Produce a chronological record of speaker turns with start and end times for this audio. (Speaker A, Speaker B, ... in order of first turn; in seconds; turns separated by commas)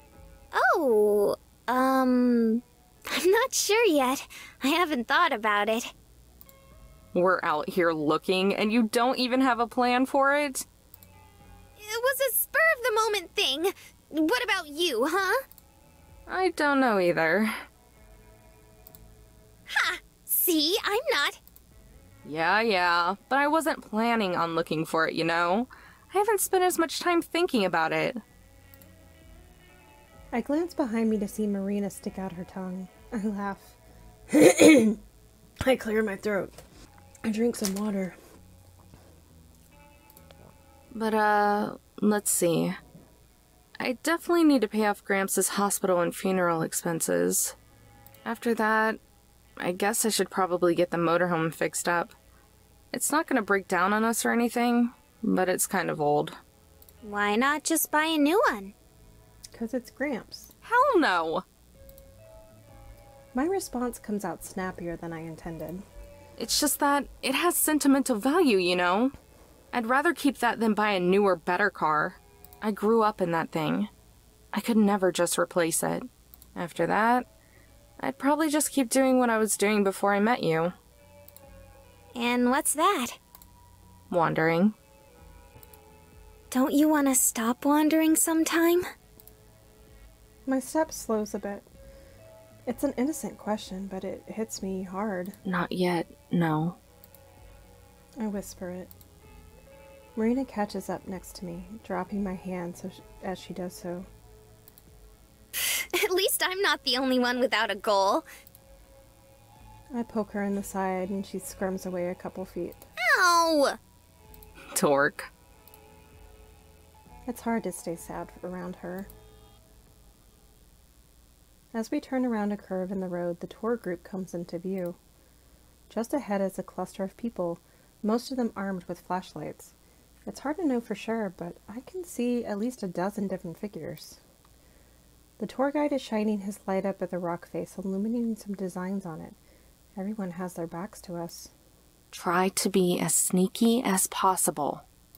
Speaker A: 0.5-5.9, Speaker B: 7.1-10.7, Speaker A: 11.8-15.4, Speaker B: 16.3-17.5, Speaker A: 19.7-21.4, Speaker B: 22.2-28.2, Speaker C: 30.3-33.8, Speaker C: 34.3-35.0, Speaker C: 35.6-36.6, Speaker C: 37.2-38.2, Speaker B: 40.9-42.8, Speaker B: 43.8-47.5, Speaker B: 48.2-49.0, Speaker B: 49.6-52.1, Speaker B: 52.9-56.4, Speaker A: 57.0-58.7, Speaker C: 59.5-60.5, Speaker B: 60.6-61.4, Speaker C: 63.3-65.8, Speaker B: 66.4-69.1, Speaker B: 69.7-73.9, Speaker B: 74.5-77.2, Speaker B: 78.0-80.7, Speaker A: 82.2-83.2, Speaker B: 84.1-84.7, Speaker A: 86.5-88.8, Speaker C: 90.5-91.7, Speaker C: 92.7-95.3, Speaker B: 95.4-96.8, Speaker C: 98.2-98.9, Speaker C: 100.2-104.1, Speaker A: 105.5-108.2, Speaker C: 109.9-112.8, Speaker A: 113.0-113.8, Speaker B: 114.7-115.3, Speaker C: 117.3-119.1, Speaker C: 121.7-125.0, Speaker C: 125.9-129.7, Speaker C: 130.2-134.2, Speaker C: 135.4-139.4, Speaker C: 139.9-141.5, Speaker B: 142.1-144.8